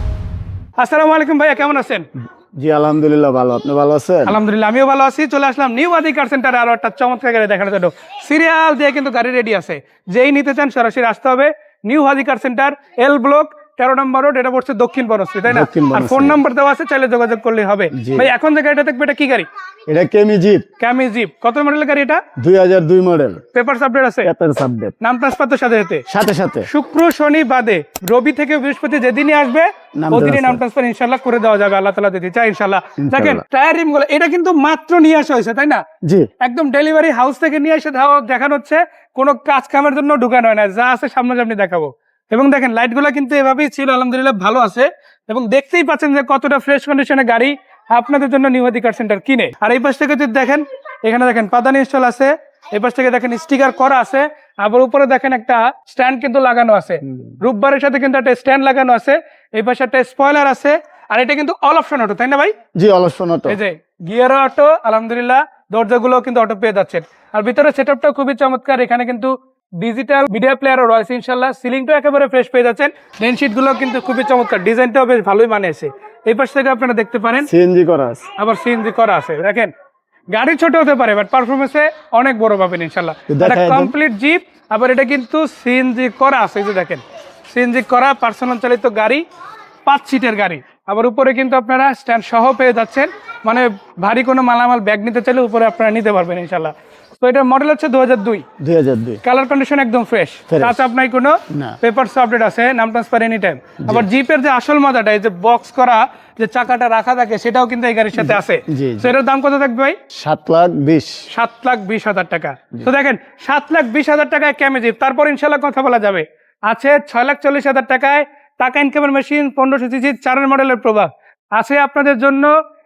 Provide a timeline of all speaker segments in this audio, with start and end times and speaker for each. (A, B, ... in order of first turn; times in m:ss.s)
0:00.8-0:02.1 A
0:02.6-0:04.4 B
0:04.2-0:19.5 A
0:15.5-0:16.4 B
0:17.9-0:18.3 B
0:19.9-0:20.6 B
0:20.8-0:22.2 A
0:22.4-0:23.4 B
0:23.5-0:24.3 A
0:24.2-0:24.9 B
0:25.0-0:26.0 A
0:26.1-0:26.7 B
0:26.7-0:35.8 A
0:30.0-0:30.6 B
0:33.0-0:33.4 B
0:36.0-0:36.3 B
0:36.4-1:02.5 A
1:02.8-1:03.6 B
1:03.5-1:17.5 A
1:17.4-1:18.3 B
1:18.4-1:19.7 A
1:20.3-1:29.2 A
1:23.3-1:23.9 B
1:29.8-1:38.4 A
1:38.6-1:39.2 B
1:39.2-1:50.0 A
1:40.5-1:40.8 B
1:41.5-1:41.8 B
1:43.8-1:44.1 B
1:48.1-1:49.1 B
1:50.1-1:51.2 B
1:51.3-2:02.5 A